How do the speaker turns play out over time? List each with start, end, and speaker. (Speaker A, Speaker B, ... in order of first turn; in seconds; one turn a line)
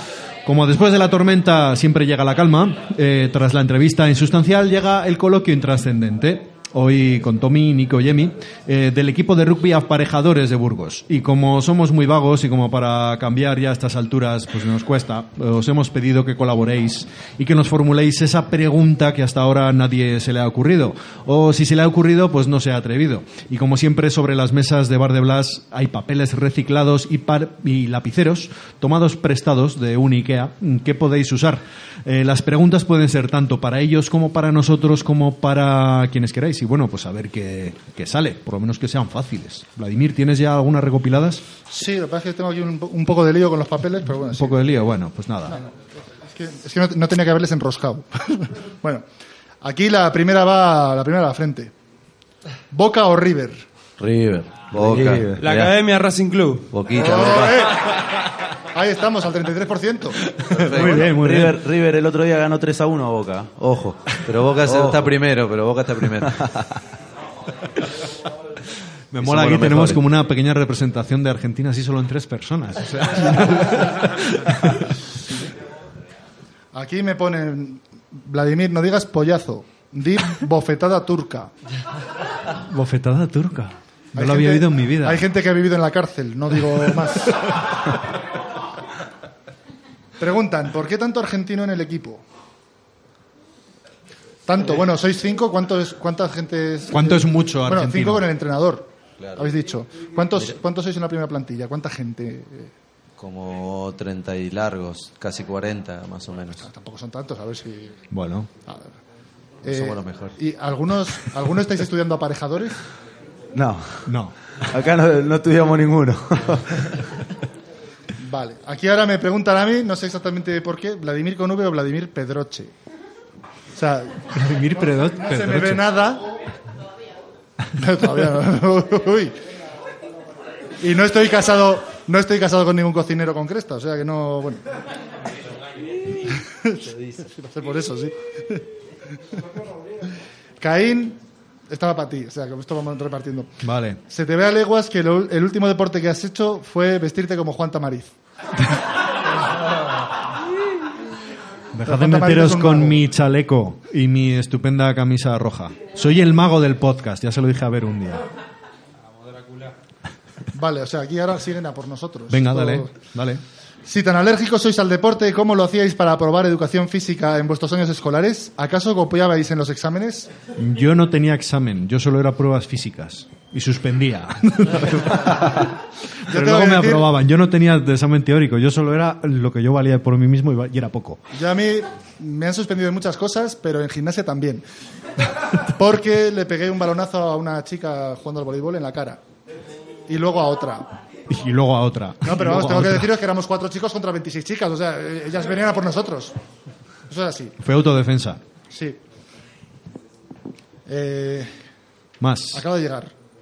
Speaker A: 0.5-41.4
Speaker B: 41.7-44.5
Speaker A: 44.4-45.6
Speaker B: 46.2-49.0
Speaker B: 49.6-51.7
Speaker B: 52.7-53.6
Speaker C: 54.0-55.3
Speaker D: 54.7-55.8
Speaker E: 55.4-56.8
Speaker C: 56.7-57.7
Speaker B: 56.9-58.0
Speaker B: 58.7-60.3
Speaker A: 60.4-61.6
Speaker C: 60.5-61.2
Speaker D: 60.7-63.6
Speaker C: 63.6-66.5
Speaker D: 64.7-65.2
Speaker D: 66.2-66.8
Speaker A: 69.1-75.0
Speaker C: 69.2-70.0
Speaker B: 76.7-81.5
Speaker A: 82.7-85.2
Speaker B: 84.2-87.6
Speaker B: 90.2-92.2
Speaker B: 94.5-102.7
Speaker A: 96.9-98.3
Speaker C: 99.2-99.6
Speaker C: 103.2-106.7
Speaker B: 106.6-108.0
Speaker A: 108.1-108.5
Speaker B: 108.7-108.9
Speaker C: 109.7-110.4
Speaker B: 109.7-112.8
Speaker D: 113.5-114.1
Speaker A: 114.1-114.3
Speaker D: 114.7-116.9
Speaker B: 118.2-122.7
Speaker B: 123.8-126.3
Speaker A: 124.3-125.9
Speaker B: 127.8-129.3
Speaker B: 130.8-134.6
Speaker B: 136.2-138.6
Speaker B: 140.6-143.5
Speaker A: 143.6-144.0
Speaker B: 144.1-148.1
Speaker A: 151.7-158.2
Speaker B: 151.9-153.0
Speaker E: 159.1-159.8
Speaker B: 160.5-162.9
Speaker A: 162.3-163.4
Speaker B: 163.9-170.3
Speaker A: 170.6-181.2
Speaker B: 176.3-177.1
Speaker B: 181.3-184.6
Speaker B: 185.6-189.2
Speaker B: 190.1-190.9
Speaker A: 191.3-193.1
Speaker B: 192.2-196.4
Speaker B: 197.1-197.5
Speaker A: 197.6-198.4
Speaker B: 198.7-199.0
Speaker B: 200.9-201.6
Speaker A: 202.2-202.7
Speaker B: 202.5-203.1